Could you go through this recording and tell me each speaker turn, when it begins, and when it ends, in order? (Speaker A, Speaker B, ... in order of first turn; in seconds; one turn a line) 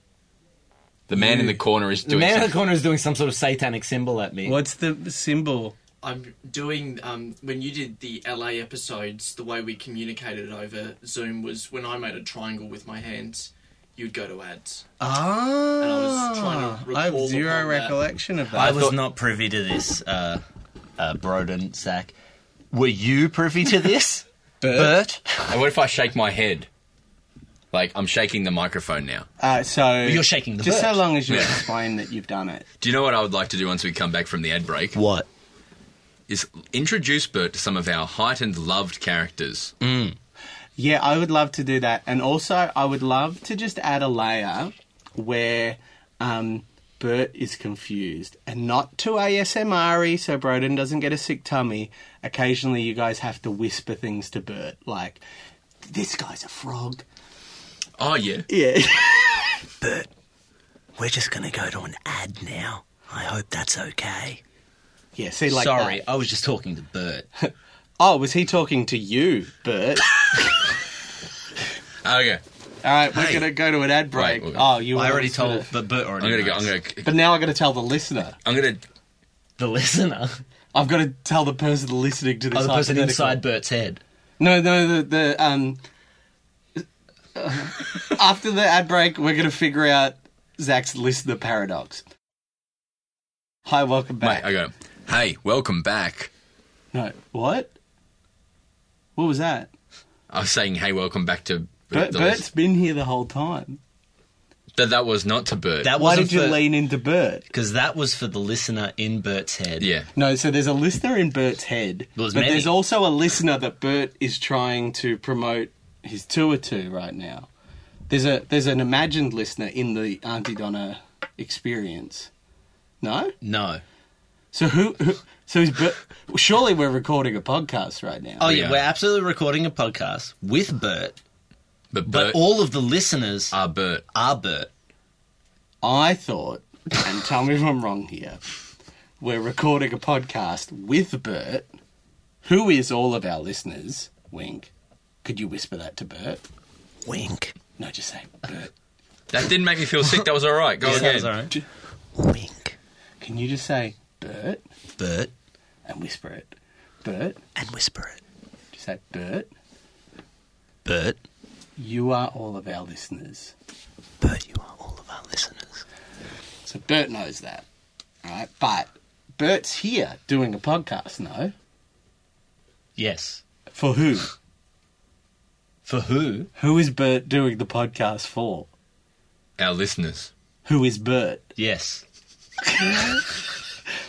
Speaker A: 1.1-2.6
Speaker B: 1.1-1.6
Speaker C: 2.0-4.6
Speaker B: 4.5-5.8
Speaker D: 6.0-14.8
Speaker B: 15.0-18.9
Speaker D: 15.8-18.0
Speaker C: 18.5-20.4
Speaker C: 21.0-22.1
Speaker C: 22.7-25.6
Speaker B: 24.6-25.0
Speaker A: 25.5-26.7
Speaker A: 27.7-29.3
Speaker B: 29.4-32.7
Speaker C: 30.0-31.1
Speaker A: 31.3-31.6
Speaker A: 32.8-35.0
Speaker C: 35.0-35.3
Speaker A: 36.3-39.7
Speaker C: 39.8-40.2
Speaker B: 40.8-55.2
Speaker B: 55.9-57.0
Speaker A: 58.0-58.5
Speaker B: 58.5-59.6
Speaker C: 59.8-60.1
Speaker C: 61.0-64.4
Speaker B: 65.2-66.0
Speaker C: 65.5-67.3
Speaker B: 67.4-70.2
Speaker A: 72.0-72.4
Speaker B: 72.8-75.7
Speaker C: 73.1-73.5
Speaker A: 74.1-74.7
Speaker C: 74.9-76.7
Speaker A: 76.2-77.2
Speaker B: 77.0-78.4
Speaker A: 78.5-78.8
Speaker C: 79.6-80.4
Speaker B: 80.7-83.4
Speaker C: 82.5-84.0
Speaker B: 84.4-85.8
Speaker B: 87.3-92.0
Speaker B: 93.7-94.5
Speaker A: 94.2-96.3
Speaker B: 96.9-97.7
Speaker B: 99.2-99.7
Speaker A: 100.3-102.5
Speaker B: 101.9-103.8
Speaker A: 104.8-106.0
Speaker C: 105.8-106.7
Speaker B: 105.9-107.5
Speaker C: 107.5-109.9
Speaker A: 109.8-110.1
Speaker B: 110.2-117.5
Speaker C: 112.2-112.7
Speaker B: 118.1-122.3
Speaker B: 123.0-123.3
Speaker C: 123.4-123.8
Speaker B: 124.5-128.5
Speaker C: 128.4-131.2
Speaker A: 128.5-128.8
Speaker A: 131.9-132.4
Speaker C: 132.1-133.6
Speaker A: 133.5-134.1
Speaker C: 134.1-134.7
Speaker B: 135.8-138.4
Speaker B: 139.2-141.7
Speaker B: 142.4-144.7
Speaker B: 145.2-146.4
Speaker E: 147.1-147.5
Speaker B: 147.8-148.7
Speaker A: 149.3-151.3
Speaker C: 150.8-151.6
Speaker E: 152.2-152.7
Speaker B: 153.2-154.6
Speaker C: 155.0-155.3
Speaker B: 155.9-156.5
Speaker B: 157.0-157.4
Speaker E: 157.6-158.2
Speaker B: 158.7-159.5
Speaker C: 160.8-161.2
Speaker B: 161.8-163.5
Speaker E: 164.2-165.7
Speaker B: 166.7-167.7
Speaker B: 168.2-171.5
Speaker C: 173.0-173.4
Speaker B: 173.7-174.3
Speaker C: 175.9-176.5
Speaker B: 176.6-178.7
Speaker A: 179.6-180.3
Speaker B: 180.7-181.5
Speaker C: 181.6-182.0
Speaker B: 182.6-183.3